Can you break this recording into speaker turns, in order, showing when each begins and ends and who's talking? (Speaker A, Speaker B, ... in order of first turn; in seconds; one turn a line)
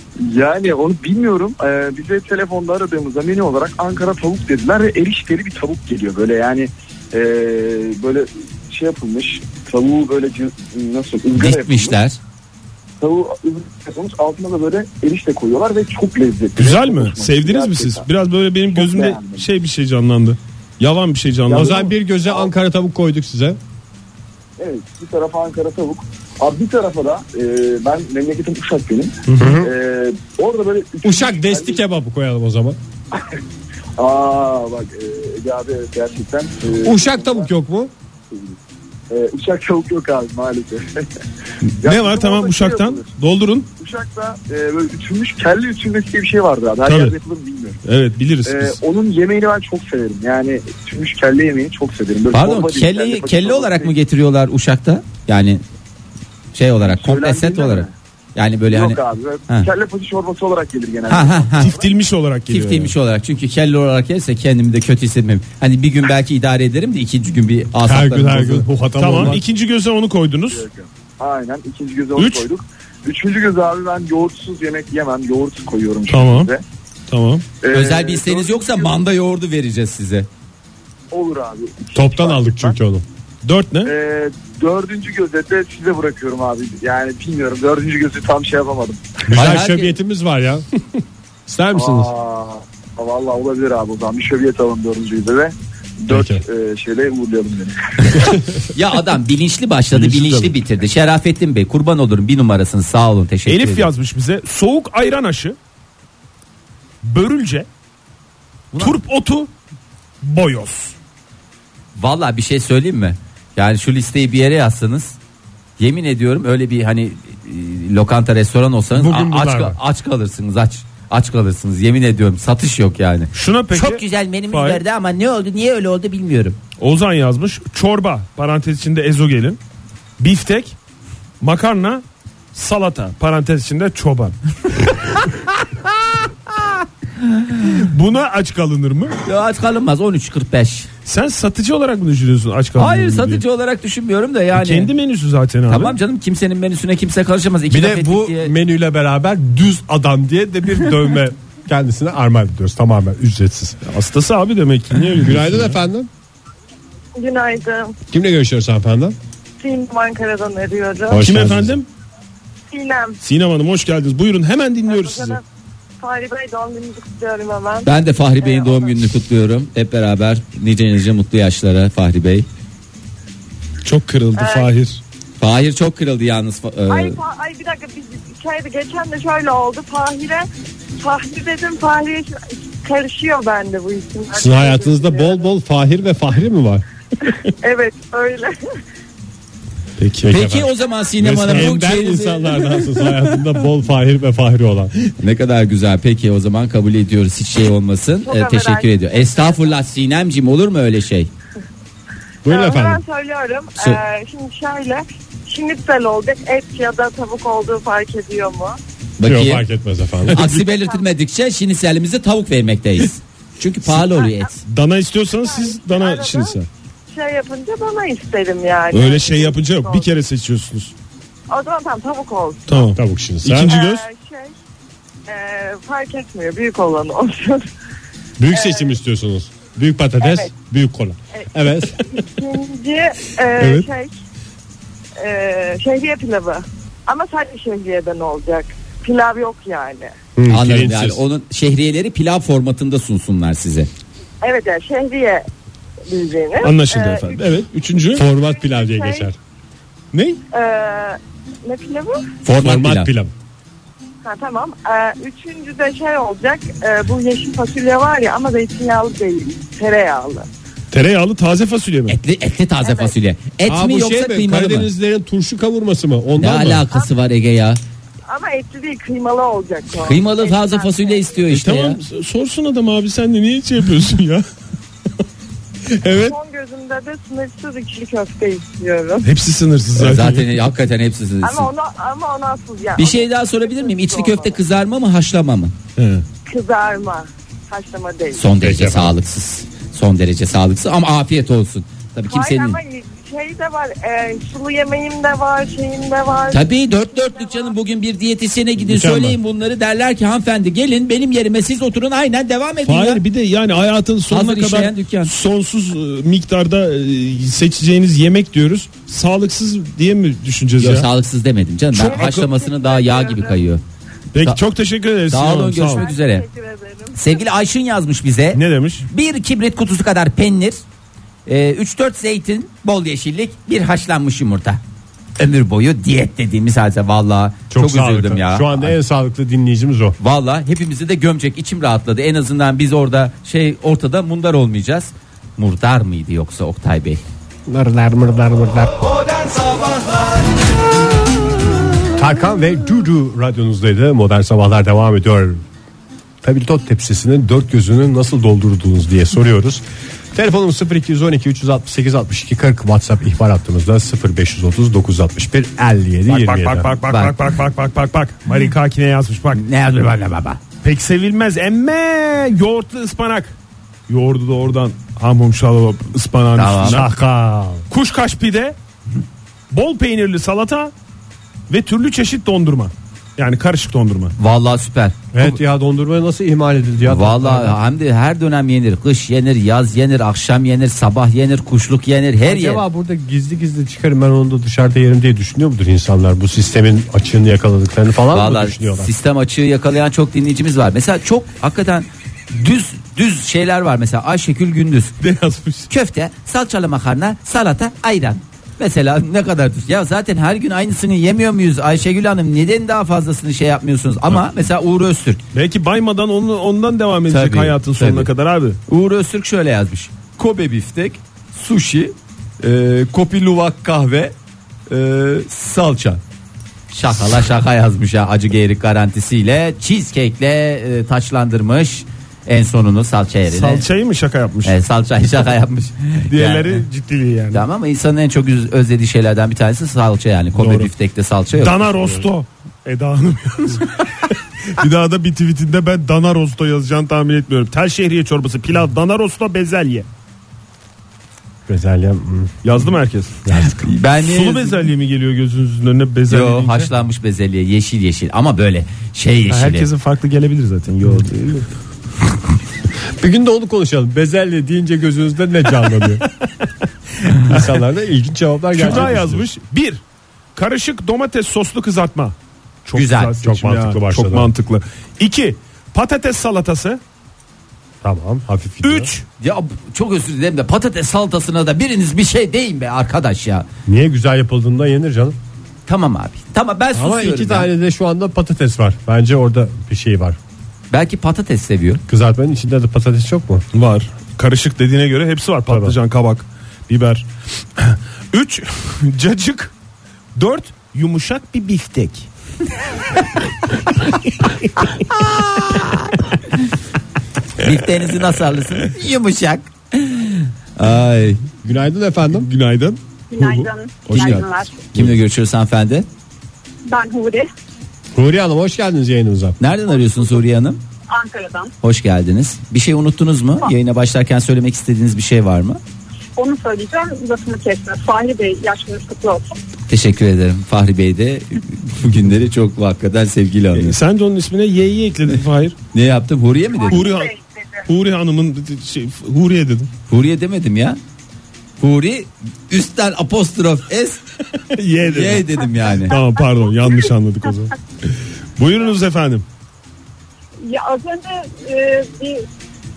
Speaker A: 0.2-12.0
Speaker B: 11.3-12.2
Speaker A: 13.0-18.1
Speaker C: 16.6-21.9
Speaker A: 18.7-19.4
Speaker D: 21.5-23.6
Speaker A: 22.3-22.5
Speaker A: 24.6-31.8
Speaker C: 29.3-29.6
Speaker D: 29.4-29.7
Speaker D: 31.0-32.8
Speaker A: 34.0-37.5
Speaker D: 36.8-37.9
Speaker A: 38.3-38.6
Speaker A: 39.1-41.1
Speaker C: 41.7-43.7
Speaker A: 41.8-43.1
Speaker A: 43.8-47.8
Speaker C: 46.8-47.2
Speaker C: 47.8-48.8
Speaker A: 48.5-53.9
Speaker B: 52.3-55.6
Speaker B: 56.5-59.7
Speaker A: 56.8-57.9
Speaker A: 58.7-61.9
Speaker B: 61.1-61.8
Speaker C: 61.6-62.9
Speaker B: 62.5-68.7
Speaker D: 67.8-69.4
Speaker C: 69.0-70.6
Speaker A: 70.5-76.6
Speaker C: 72.2-72.5
Speaker C: 76.1-76.5
Speaker C: 77.1-77.5
Speaker A: 77.6-79.0
Speaker B: 77.7-80.3
Speaker A: 81.1-82.8
Speaker D: 82.0-83.0
Speaker C: 83.4-83.9
Speaker A: 83.8-89.2
Speaker D: 89.3-90.7
Speaker B: 89.3-90.0
Speaker D: 91.5-92.1
Speaker A: 91.7-98.2
Speaker D: 96.1-96.4
Speaker B: 98.7-103.9
Speaker C: 99.9-100.5
Speaker C: 103.5-105.6
Speaker C: 107.0-107.7
Speaker B: 108.7-109.0
Speaker C: 108.8-109.5
Speaker C: 110.2-111.0
Speaker B: 112.0-115.2
Speaker B: 115.8-126.6
Speaker D: 118.9-119.8
Speaker C: 123.3-124.8
Speaker C: 126.8-129.6
Speaker C: 130.2-130.8
Speaker C: 131.4-134.9
Speaker B: 137.2-137.5
Speaker C: 137.8-139.2
Speaker B: 139.2-140.9
Speaker C: 141.1-143.4
Speaker B: 142.8-144.9
Speaker C: 144.5-146.0
Speaker B: 145.7-148.5
Speaker D: 147.7-153.8
Speaker C: 153.9-155.8
Speaker D: 155.2-156.1
Speaker E: 157.2-157.9
Speaker D: 158.1-159.2
Speaker E: 159.6-161.2
Speaker D: 161.1-161.8
Speaker C: 161.2-161.9
Speaker E: 162.7-163.2
Speaker C: 163.2-165.4
Speaker E: 164.9-165.4
Speaker E: 166.0-169.0
Speaker B: 167.8-172.5
Speaker C: 173.8-175.0
Speaker E: 174.4-174.8
Speaker B: 175.4-177.2
Speaker E: 176.9-180.5
Speaker E: 181.0-185.5
Speaker D: 184.3-186.8
Speaker E: 187.6-188.6
Speaker C: 190.0-190.3
Speaker D: 190.2-190.7
Speaker B: 190.3-193.0
Speaker D: 191.2-194.9
Speaker C: 191.2-191.8
Speaker B: 195.2-201.3
Speaker E: 198.2-199.7
Speaker D: 202.4-203.0
Speaker E: 202.5-208.8
Speaker B: 209.2-209.7
Speaker D: 209.2-210.5
Speaker B: 210.3-214.6
Speaker E: 210.7-211.0
Speaker C: 214.7-216.7
Speaker E: 215.4-216.6
Speaker E: 217.1-220.1
Speaker C: 218.9-220.9
Speaker E: 221.5-222.9
Speaker C: 222.7-224.0
Speaker D: 222.9-223.7
Speaker E: 223.7-224.6
Speaker E: 225.3-227.7
Speaker D: 228.4-232.0
Speaker E: 228.5-229.0
Speaker E: 230.2-230.5
Speaker E: 231.3-234.1
Speaker E: 235.2-240.1
Speaker D: 240.4-241.2
Speaker B: 240.5-243.9
Speaker E: 244.4-245.5
Speaker E: 246.1-247.5
Speaker C: 246.6-248.3
Speaker D: 248.1-249.4
Speaker E: 248.4-249.3
Speaker C: 250.1-250.4
Speaker E: 250.5-252.2
Speaker B: 252.4-253.1
Speaker D: 252.6-253.3
Speaker E: 254.2-260.5
Speaker C: 260.9-262.2
Speaker B: 262.1-264.9
Speaker E: 262.8-263.1
Speaker D: 263.7-266.8
Speaker B: 266.4-267.8
Speaker E: 268.3-271.4
Speaker B: 270.0-272.0
Speaker C: 271.5-274.4
Speaker C: 275.9-276.4
Speaker E: 276.1-279.3
Speaker C: 279.2-280.6
Speaker B: 280.0-281.7
Speaker E: 281.4-284.6
Speaker B: 283.0-285.8
Speaker C: 286.0-286.2
Speaker E: 286.5-288.5
Speaker B: 288.3-292.8
Speaker D: 288.6-289.1
Speaker E: 292.3-297.8
Speaker B: 296.5-303.2
Speaker D: 298.8-299.4
Speaker C: 302.9-311.1
Speaker B: 304.3-305.3
Speaker B: 310.8-313.8
Speaker C: 312.0-312.4
Speaker E: 312.1-313.8
Speaker C: 314.3-316.1
Speaker B: 315.3-316.4
Speaker E: 315.9-317.4
Speaker B: 317.1-320.8
Speaker C: 318.5-319.1
Speaker B: 321.5-324.8
Speaker B: 325.4-328.9
Speaker D: 327.7-330.2
Speaker B: 330.2-337.2
Speaker D: 337.7-339.1
Speaker D: 342.2-345.6
Speaker D: 346.4-356.9
Speaker C: 356.3-359.6
Speaker B: 357.1-357.4
Speaker B: 359.5-360.6
Speaker C: 360.8-363.6
Speaker C: 364.1-367.1
Speaker B: 366.6-367.0
Speaker D: 366.9-367.9
Speaker C: 367.9-368.8
Speaker C: 369.7-370.9
Speaker C: 371.7-374.4
Speaker B: 374.4-375.6
Speaker D: 375.3-377.8
Speaker B: 377.1-382.8
Speaker D: 382.4-389.1
Speaker B: 388.3-395.2
Speaker C: 395.2-395.9
Speaker B: 395.9-405.4
Speaker C: 405.5-408.8
Speaker B: 407.3-408.3
Speaker B: 408.9-414.3
Speaker B: 414.9-416.2
Speaker B: 416.9-423.9
Speaker C: 423.5-424.8
Speaker B: 424.6-426.8
Speaker C: 426.3-427.6
Speaker B: 427.5-431.9
Speaker C: 430.6-430.9
Speaker C: 431.5-440.1
Speaker D: 441.7-442.5
Speaker C: 442.6-443.4
Speaker D: 443.5-443.8
Speaker B: 443.6-444.9
Speaker C: 444.2-446.9
Speaker B: 446.3-449.9
Speaker C: 449.5-451.7
Speaker D: 453.2-456.2
Speaker D: 457.4-459.5
Speaker C: 458.8-460.0
Speaker C: 460.6-462.3
Speaker C: 462.9-467.0
Speaker B: 462.9-463.3
Speaker D: 463.4-464.5
Speaker D: 468.0-469.1
Speaker C: 468.8-469.2
Speaker B: 469.4-473.7
Speaker D: 473.9-475.4
Speaker B: 475.9-477.7
Speaker D: 476.9-480.4
Speaker B: 480.9-482.0
Speaker D: 482.1-483.8
Speaker C: 483.7-487.3
Speaker D: 485.7-485.9
Speaker C: 487.8-489.7
Speaker C: 490.4-492.3
Speaker B: 495.1-495.9
Speaker B: 497.6-501.4
Speaker D: 501.6-502.5
Speaker C: 502.3-505.1
Speaker F: 503.3-504.7
Speaker B: 504.1-506.1
Speaker F: 506.9-507.5
Speaker D: 508.1-509.6
Speaker B: 509.6-510.8
Speaker F: 511.1-511.7
Speaker B: 511.8-515.8
Speaker F: 516.4-519.6
Speaker B: 519.9-524.0
Speaker C: 523.7-525.8
Speaker B: 525.9-527.0
Speaker C: 526.9-529.9
Speaker B: 530.1-531.0
Speaker B: 531.8-534.2
Speaker C: 534.7-535.5
Speaker B: 535.1-536.2
Speaker C: 536.0-537.8
Speaker C: 538.6-539.4
Speaker F: 540.6-542.5